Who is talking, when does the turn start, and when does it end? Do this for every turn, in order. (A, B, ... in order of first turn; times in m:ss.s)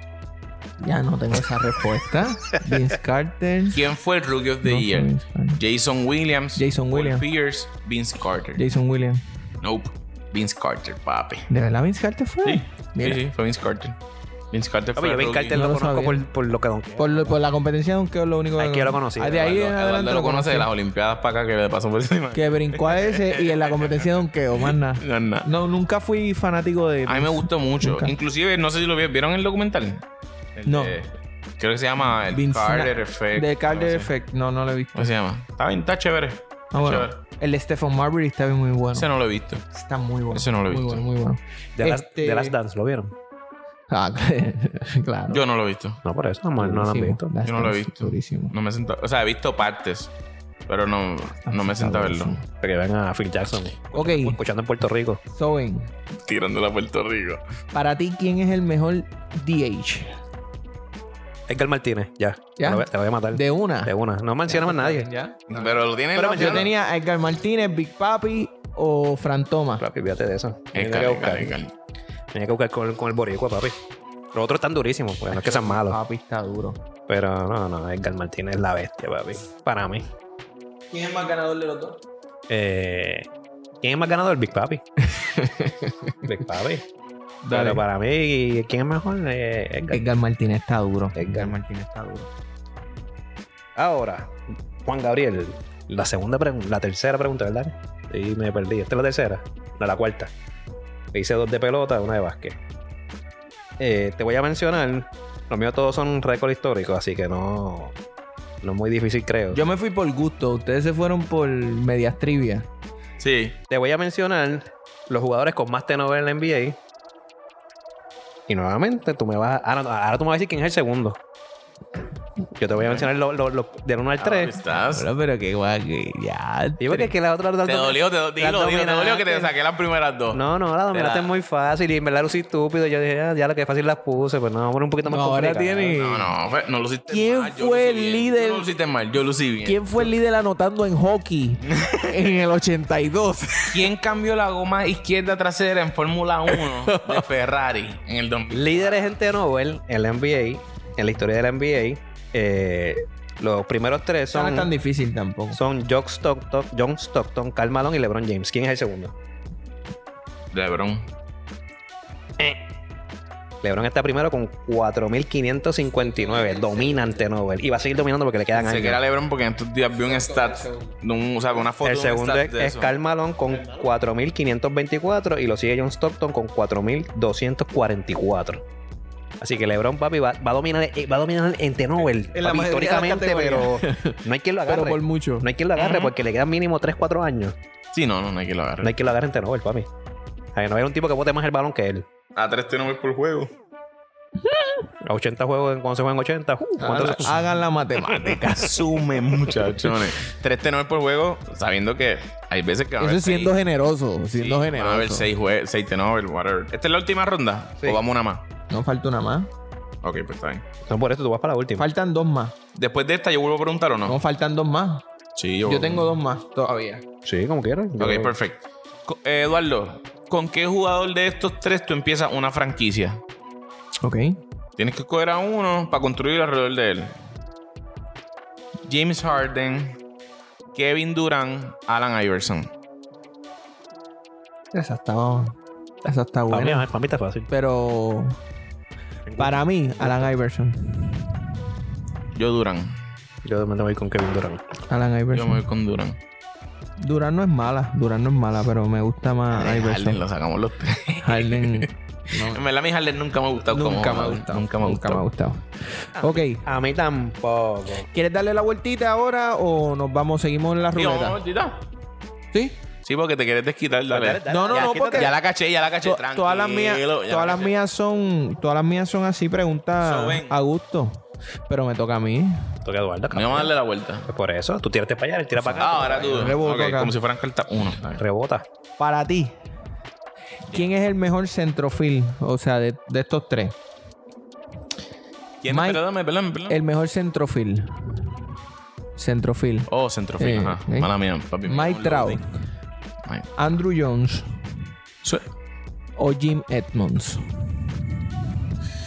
0:00.8-0:03.8 A
0:03.7-0:08.6 B
0:04.6-0:05.6 A
0:06.6-0:07.2 A
0:08.6-0:09.2 A
0:09.6-0:11.5 B
0:11.5-0:13.2 A
0:12.4-0:14.0 B
0:14.5-0:15.6 B
0:15.0-0:17.4 C
0:15.5-0:16.2 A
0:17.0-0:20.7 A
0:18.6-0:19.6 C
0:19.4-0:25.5 B
0:22.3-0:28.1 A
0:27.1-0:30.0 B
0:30.6-0:34.1 B
0:30.6-0:31.0 A
0:32.3-0:35.1 A
0:34.9-0:37.2 B
0:36.7-0:39.1 A
0:38.9-0:39.6 B
0:39.7-0:42.6 A
0:40.3-0:41.0 B
0:41.8-0:43.1 C
0:43.9-0:45.4 A
0:45.3-0:46.0 B
0:46.0-0:47.3 C
0:46.6-0:48.5 A
0:47.4-0:50.1 B
0:50.7-0:52.4 B
0:51.5-0:52.4 A
0:52.6-0:55.2 C
0:53.9-0:54.4 A
0:55.3-0:55.9 A
0:56.2-0:57.4 B
0:57.7-1:00.2 A
1:01.5-1:05.1 C
1:02.6-1:05.8 A
1:05.5-1:06.7 B
1:06.1-1:06.7 C
1:06.3-1:09.8 A
1:09.8-1:11.5 C
1:10.7-1:11.7 B
1:12.3-1:13.8 C
1:14.3-1:16.0 C
1:15.3-1:16.8 A
1:17.1-1:20.1 C
1:20.9-1:22.0 A
1:22.5-1:23.3 C
1:23.8-1:24.8 C
1:25.0-1:26.2 A
1:26.2-1:26.8 C
1:27.4-1:27.8 A
1:27.5-1:30.0 C
1:29.9-1:32.3 A
1:31.1-1:31.5 C
1:33.8-1:40.3 C
1:41.1-1:42.6 C
1:43.8-1:47.9 C
1:48.6-1:49.6 C
1:49.5-1:52.7 A
1:53.2-1:53.6 B
1:53.7-1:56.8 C
1:58.5-2:01.2 C
2:02.6-2:04.6 C
2:02.7-2:03.1 B
2:04.2-2:05.1 B
2:04.9-2:07.1 A
2:06.8-2:09.5 C
2:07.6-2:11.3 B
2:10.3-2:16.0 C
2:15.0-2:16.3 A
2:16.0-2:20.1 B
2:17.1-2:18.7 A
2:19.6-2:23.8 A
2:21.7-2:22.2 B
2:23.7-2:29.1 B
2:26.5-2:27.2 A
2:28.5-2:34.7 C
2:34.3-2:35.6 A
2:35.5-2:39.1 C
2:40.5-2:41.1 B
2:43.6-2:49.0 C
2:45.9-2:47.2 A
2:48.5-2:52.9 B
2:50.0-2:50.9 A
2:51.8-2:58.6 C
2:59.4-3:07.6 C
3:02.3-3:05.5 A
3:05.8-3:06.1 B
3:07.9-3:08.9 B
3:08.8-3:09.9 C
3:10.5-3:12.1 C
3:12.4-3:13.5 B
3:14.4-3:14.8 A
3:15.0-3:17.4 C
3:16.8-3:18.8 A
3:17.0-3:17.4 B
3:18.2-3:23.5 B
3:23.0-3:25.3 A
3:24.3-3:28.4 B
3:28.7-3:29.5 A
3:30.0-3:30.6 B
3:30.8-3:31.9 C
3:31.8-3:32.6 A
3:32.7-3:34.2 B
3:34.0-3:35.0 A
3:35.4-3:36.2 B
3:35.6-3:37.0 A
3:37.2-3:38.3 C
3:38.0-3:43.2 B
3:44.0-3:44.4 A
3:44.8-3:47.2 B
3:48.9-3:50.0 B
3:50.7-3:52.7 B
3:54.7-3:56.9 A
3:56.5-3:57.5 C
3:57.5-3:58.4 A
3:59.3-4:00.3 C
3:59.4-4:01.5 A
4:02.3-4:03.0 B
4:03.4-4:04.6 C
4:04.9-4:05.6 A
4:05.3-4:06.2 B
4:07.0-4:10.2 A
4:09.5-4:15.2 B
4:11.2-4:12.6 A
4:13.7-4:16.6 A
4:16.2-4:18.1 C
4:18.1-4:21.4 A
4:20.9-4:21.8 B
4:22.5-4:22.8 A
4:23.0-4:27.7 B
4:24.1-4:25.3 C
4:24.5-4:25.4 A
4:26.0-4:32.7 A
4:30.0-4:30.6 B
4:32.8-4:33.7 C
4:33.3-4:34.3 B
4:34.3-4:36.5 C
4:35.6-4:38.2 B
4:35.8-4:37.1 A
4:38.2-4:38.6 C
4:39.0-4:39.5 A
4:40.7-4:43.8 A
4:45.6-4:46.8 B
4:45.7-4:46.0 A
4:46.7-4:48.2 A
4:49.2-4:51.1 A
4:49.9-4:52.4 B
4:51.6-4:52.4 A
4:53.6-4:54.5 A
4:56.2-4:57.8 A